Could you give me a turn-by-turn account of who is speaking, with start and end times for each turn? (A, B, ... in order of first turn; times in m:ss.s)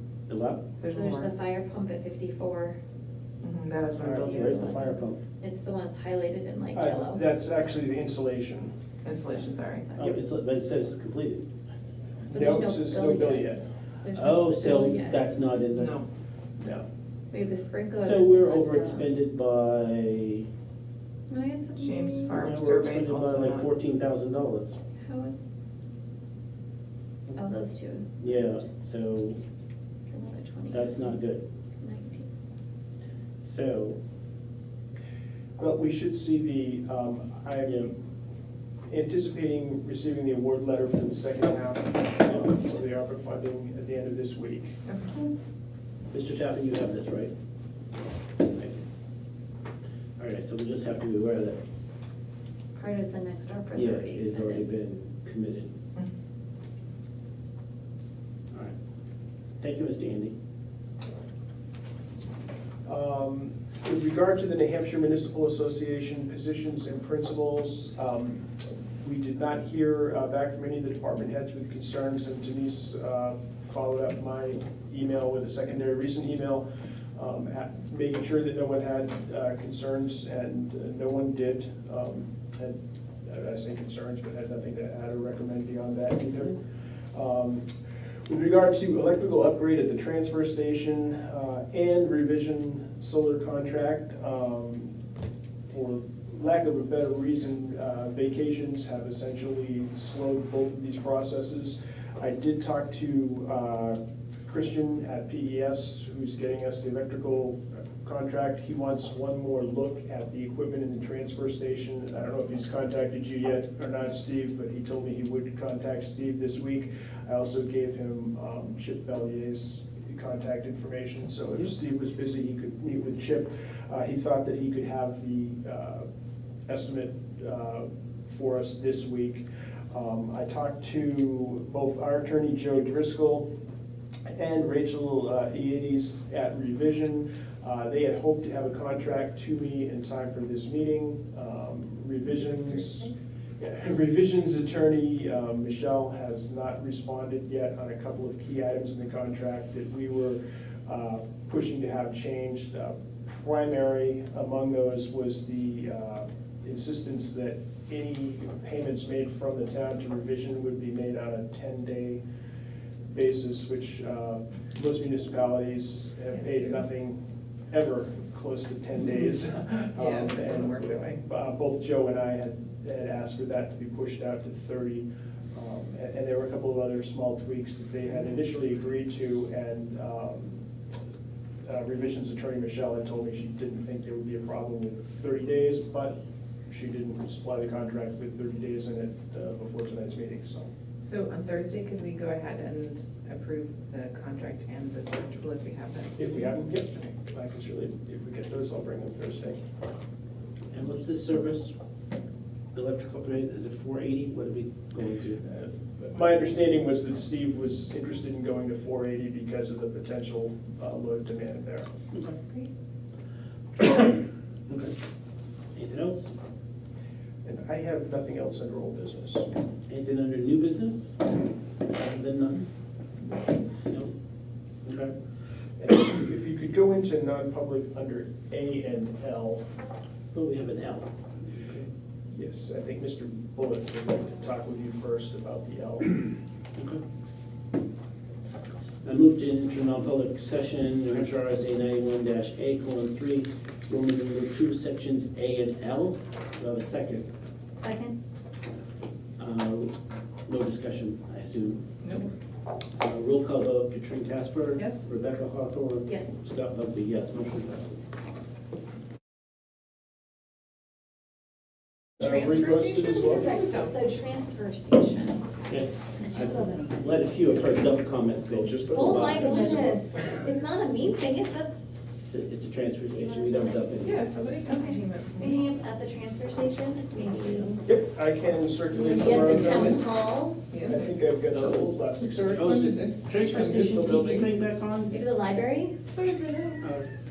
0:00.3-0:00.6 A
0:00.8-0:01.3 B
0:00.9-0:02.8 C
0:03.4-0:04.7 B
0:04.0-0:05.2 A
0:04.2-0:07.2 C
0:06.7-0:08.7 D
0:09.0-0:09.9 B
0:09.8-0:10.2 C
0:10.0-0:11.4 A
0:12.3-0:13.6 D
0:12.3-0:15.2 C
0:14.1-0:16.0 A
0:15.7-0:16.1 B
0:16.6-0:16.9 D
0:17.3-0:19.1 C
0:18.0-0:20.5 A
0:21.3-0:22.3 C
0:21.8-0:23.7 B
0:22.3-0:24.8 A
0:25.0-0:25.4 C
0:27.4-0:28.1 C
0:28.2-0:29.4 A
0:30.1-0:31.1 C
0:30.7-0:31.4 A
0:31.8-0:32.3 C
0:33.4-0:34.0 A
0:35.6-0:38.0 D
0:38.9-0:44.8 D
0:46.1-0:47.3 A
0:48.5-0:48.8 A
0:50.2-0:51.6 A
0:52.8-0:54.6 C
0:53.7-0:55.7 A
0:59.6-1:00.4 A
1:02.9-1:08.5 D
1:09.0-1:16.6 D
1:17.2-1:26.6 D
1:27.1-1:27.7 D
1:28.3-1:35.0 D
1:35.7-2:06.1 D
2:06.7-2:13.5 D
2:14.3-2:42.2 D
2:43.1-2:47.2 D
2:46.3-2:46.7 B
2:47.7-3:00.6 D
2:50.0-2:51.2 B
3:01.6-3:06.2 D
3:06.7-3:10.7 D
3:11.0-3:17.1 B
3:16.2-3:19.6 D
3:20.7-3:21.7 A
3:22.7-3:25.4 A
3:25.4-3:31.9 D
3:32.1-3:32.4 A
3:34.7-3:35.0 A
3:35.8-3:36.3 A
3:37.4-3:39.5 D
3:39.9-3:41.2 A
3:41.9-3:42.7 A
3:43.8-3:44.1 A
3:44.8-3:45.1 A
3:45.8-3:49.6 D
3:50.3-3:51.9 A
3:52.3-3:56.2 D
3:56.8-3:57.0 A
3:59.0-4:07.3 A
4:07.8-4:08.2 C
4:09.4-4:10.0 A
4:10.5-4:11.8 A
4:12.0-4:12.3 B
4:13.0-4:18.0 A
4:14.8-4:15.1 B
4:22.2-4:23.5 D
4:22.2-4:24.0 B
4:23.2-4:25.4 C
4:25.7-4:30.0 A
4:26.4-4:26.8 C
4:28.5-4:30.0 D
4:28.9-4:31.8 C
4:32.3-4:34.2 A
4:33.1-4:37.8 C
4:34.0-4:35.6 B
4:37.8-4:40.1 D
4:39.0-4:40.6 C
4:39.1-4:40.1 B
4:40.7-4:41.1 B
4:40.8-4:42.9 D
4:42.5-4:44.4 B
4:42.5-4:45.2 A
4:45.1-4:46.2 C
4:46.2-4:46.8 B
4:46.8-4:47.1 A